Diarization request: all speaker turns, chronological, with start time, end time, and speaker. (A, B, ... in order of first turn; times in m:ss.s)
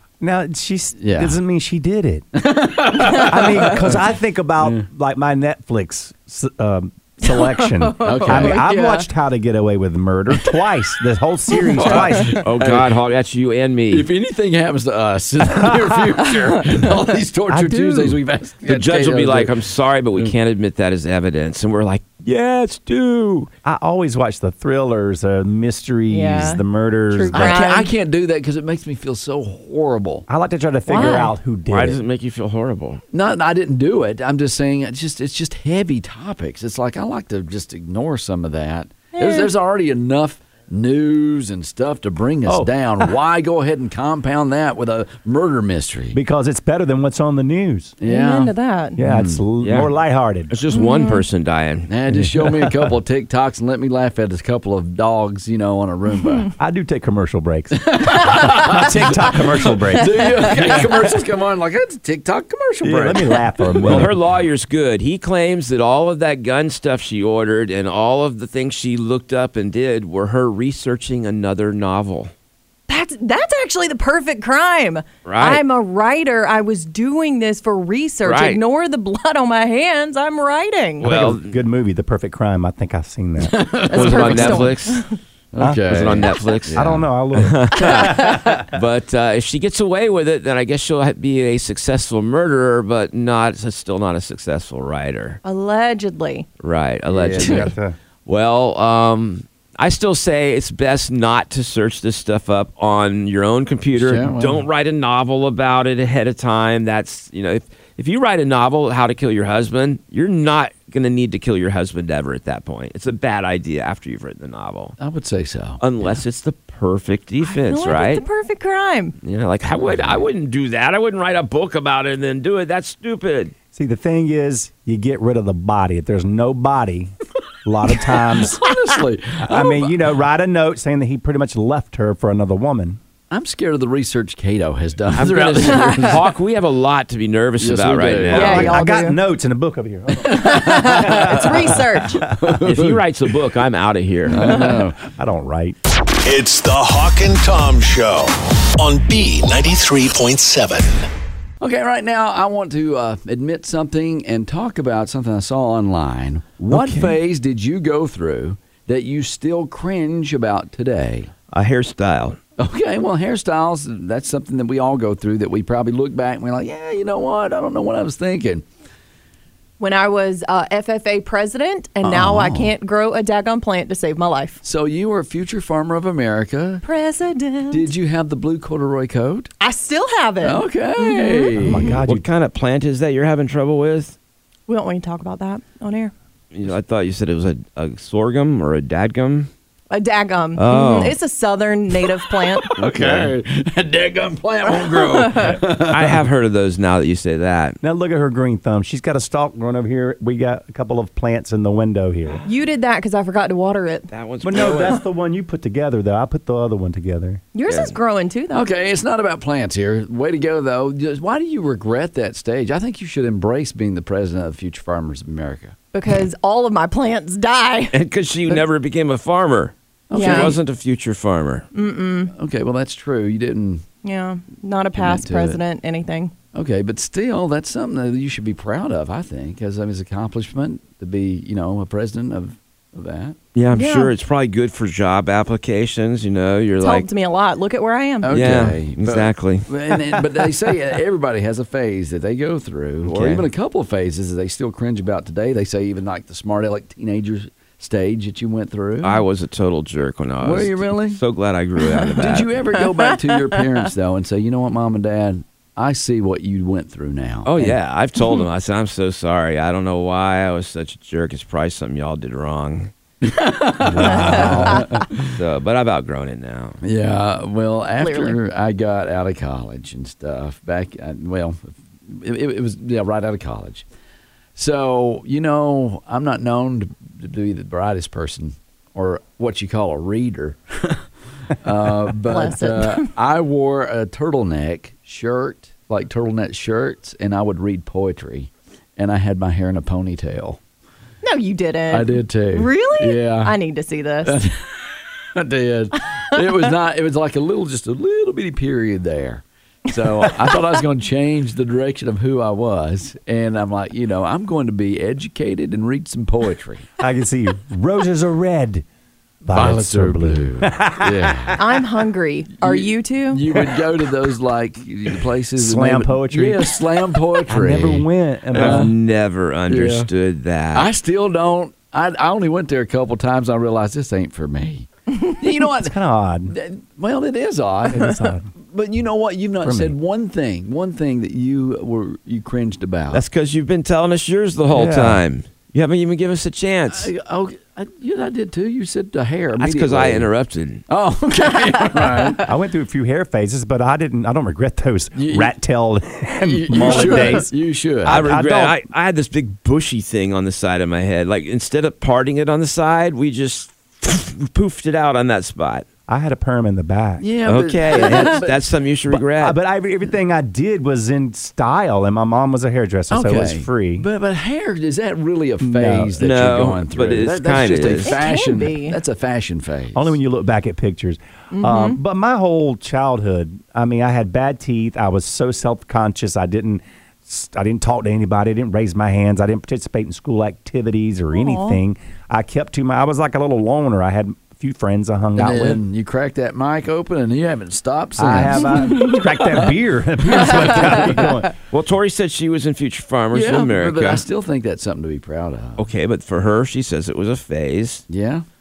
0:00.2-0:02.3 A
0:01.0-0:01.4 B
0:02.4-0:04.0 B
0:03.0-0:12.4 A
0:04.6-0:04.8 B
0:07.2-0:09.0 C
0:08.0-0:08.7 B
0:11.7-0:12.9 B
0:12.4-0:14.1 D
0:13.9-0:19.5 B
0:17.5-0:18.2 A
0:18.6-0:23.5 D
0:23.6-0:27.6 A
0:26.1-0:27.9 C
0:27.3-0:30.3 B
0:30.3-0:32.0 A
0:30.9-0:31.4 C
0:31.7-0:33.0 D
0:33.1-0:46.2 B
0:39.2-0:39.5 C
0:42.5-0:42.8 A
0:46.1-0:48.0 A
0:48.0-0:48.5 B
0:48.0-0:49.0 C
0:49.0-0:50.5 A
0:49.0-0:49.4 B
0:49.6-0:49.9 D
0:50.5-0:51.9 D
0:50.7-0:51.2 C
0:51.9-0:56.5 B
0:52.1-0:52.9 A
0:56.6-1:01.1 A
0:57.8-1:04.1 B
0:58.2-0:58.7 C
1:02.8-1:04.1 A
1:03.8-1:12.3 D
1:12.9-1:21.0 C
1:15.2-1:15.6 D
1:18.2-1:18.6 D
1:21.0-1:23.7 A
1:21.0-1:21.6 D
1:23.4-1:24.6 B
1:23.9-1:25.2 C
1:23.9-1:25.0 D
1:25.5-1:27.1 B
1:25.6-1:26.1 A
1:25.9-1:35.4 D
1:26.7-1:28.6 A
1:28.0-1:28.4 C
1:35.4-1:36.5 C
1:36.6-1:37.7 D
1:37.1-1:37.6 B
1:37.2-1:38.0 A
1:38.3-1:55.0 D
1:44.0-1:44.6 B
1:55.0-1:56.2 B
1:55.8-1:58.2 D
1:57.4-1:59.2 C
1:59.2-2:03.5 D
1:59.8-2:00.2 B
2:03.7-2:08.6 A
2:08.4-2:09.9 B
2:09.4-2:13.0 A
2:13.3-2:16.2 B
2:15.2-2:18.7 D
2:17.6-2:18.6 B
2:18.3-2:19.2 C
2:18.3-2:22.2 A
2:20.2-2:23.0 B
2:20.3-2:22.2 C
2:22.6-2:24.5 D
2:24.3-2:25.0 B
2:25.0-2:25.8 A
2:26.2-2:31.1 E
2:31.6-2:41.3 B
2:36.7-2:37.2 A
2:41.5-2:42.4 D
2:42.6-2:48.6 B
2:49.8-2:54.6 C
2:52.0-2:52.7 B
2:54.6-2:56.8 B
2:56.8-2:57.9 C
2:57.7-2:59.5 B
2:59.6-3:02.0 C
3:00.4-3:01.9 B
3:01.6-3:02.3 A
3:02.0-3:04.2 D
3:04.7-3:06.1 C
3:06.5-3:09.5 D
3:09.9-3:12.7 C
3:10.6-3:11.2 D
3:12.8-3:13.3 D
3:12.8-3:16.2 B
3:14.7-3:15.6 C
3:15.8-3:17.8 D
3:17.8-3:22.4 A
3:22.5-3:24.1 C
3:24.1-3:25.0 D
3:24.4-3:27.4 A
3:27.5-3:28.7 C
3:27.7-3:28.0 D
3:28.5-3:35.8 B
3:35.9-3:38.0 C
3:37.9-3:41.7 D
3:40.1-3:40.6 B
3:40.1-3:40.6 C
3:41.7-3:42.3 C
3:42.3-3:43.9 B
3:44.0-3:46.3 C
3:44.9-3:45.6 B
3:46.5-3:53.4 B
3:53.6-3:57.1 D
3:53.7-3:54.1 C
3:56.8-3:58.4 C
3:58.2-4:09.2 B
3:58.3-3:59.7 D
4:03.0-4:03.5 D
4:09.0-4:12.6 D
4:10.4-4:11.2 B
4:12.2-4:17.8 B
4:17.4-4:22.9 D
4:23.2-4:25.3 B
4:23.8-4:24.8 A
4:24.1-4:24.5 D
4:24.1-4:24.9 C
4:25.3-4:26.8 D
4:26.8-4:33.8 B
4:28.0-4:28.4 C
4:34.6-4:50.6 B
4:42.3-4:43.1 C
4:51.2-4:54.4 C
4:51.9-4:53.6 B
4:54.2-4:54.7 B
4:55.4-5:06.9 B
5:07.0-5:08.8 A
5:09.4-5:11.6 A
5:09.5-5:11.6 B
5:11.6-5:13.4 C
5:12.6-5:18.9 B
5:15.6-5:16.8 A
5:17.5-5:18.9 A
5:18.5-5:20.9 D
5:19.7-5:20.1 B
5:20.7-5:25.9 B
5:25.8-5:26.5 A
5:26.5-5:33.2 B
5:27.9-5:28.5 A
5:29.6-5:29.9 A
5:33.1-5:37.1 D
5:34.7-5:35.2 A
5:36.9-5:40.3 B
5:39.6-5:40.8 D
5:40.9-5:42.4 B
5:42.4-5:47.5 A
5:45.2-5:45.6 B
5:46.4-5:48.2 B
5:48.0-5:48.8 A
5:48.1-5:55.9 D
5:56.1-5:57.2 A
5:57.2-5:58.6 B
5:57.5-5:59.6 D
5:59.1-6:04.1 A
6:03.1-6:10.2 B
6:05.6-6:06.2 A
6:06.2-6:08.2 D
6:08.0-6:09.0 C
6:09.9-6:25.8 A
6:11.5-6:12.0 C
6:21.3-6:21.8 C
6:25.4-6:29.2 B
6:28.2-6:31.5 A
6:28.8-6:29.1 C
6:30.3-6:31.2 B
6:31.7-6:34.2 D
6:33.3-6:35.8 B
6:35.8-6:38.1 D
6:38.1-6:38.4 B